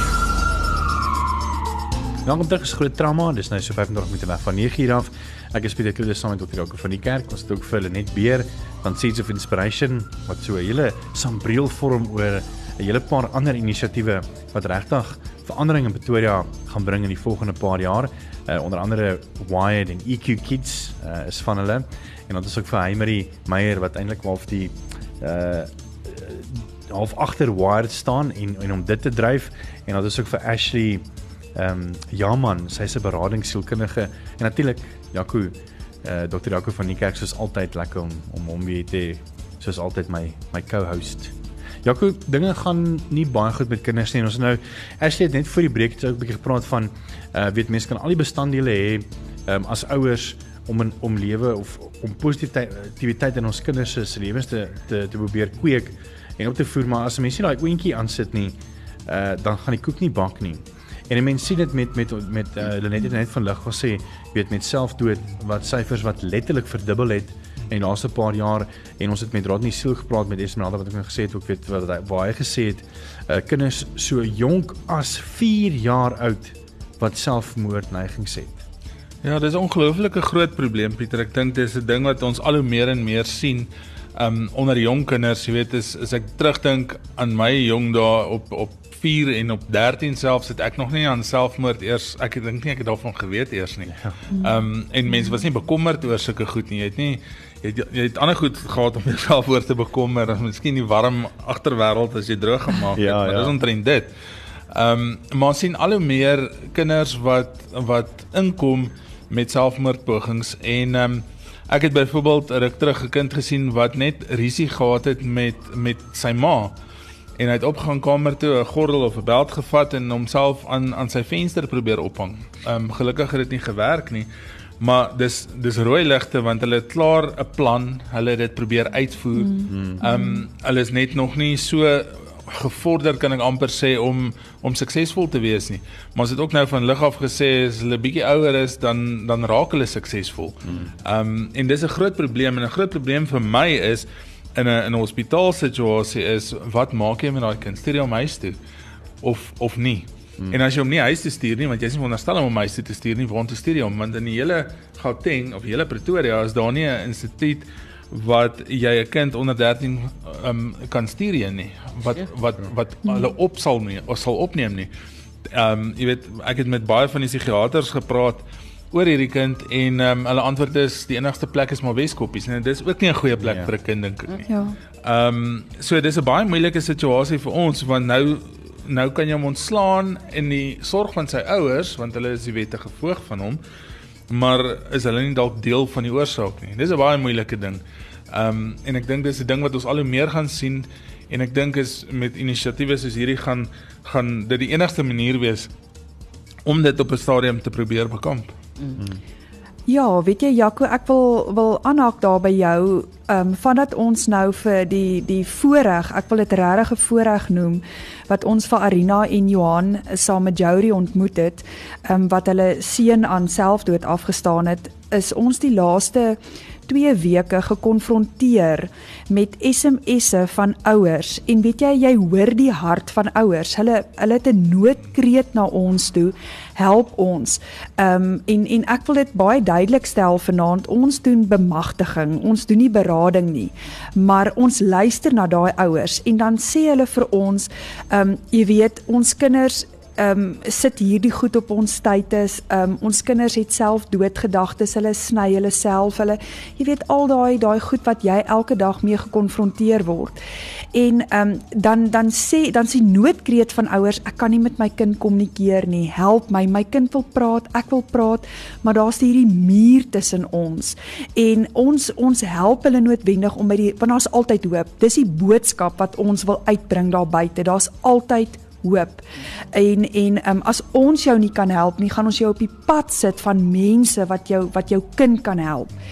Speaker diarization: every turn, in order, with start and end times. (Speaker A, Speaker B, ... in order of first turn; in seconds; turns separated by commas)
Speaker A: 2.2-78.6, Speaker B: 79.2-104.1, Speaker A: 103.0-103.5, Speaker B: 104.7-116.7, Speaker B: 117.4-124.3, Speaker B: 124.8-148.6, Speaker C: 129.4-130.4, Speaker A: 129.7-130.0, Speaker B: 149.2-164.9, Speaker B: 165.5-174.5, Speaker A: 173.4-173.7, Speaker C: 174.5-174.8, Speaker B: 175.0-183.6, Speaker B: 184.3-195.7, Speaker B: 196.6-198.5, Speaker C: 199.9-250.4, Speaker C: 250.9-275.9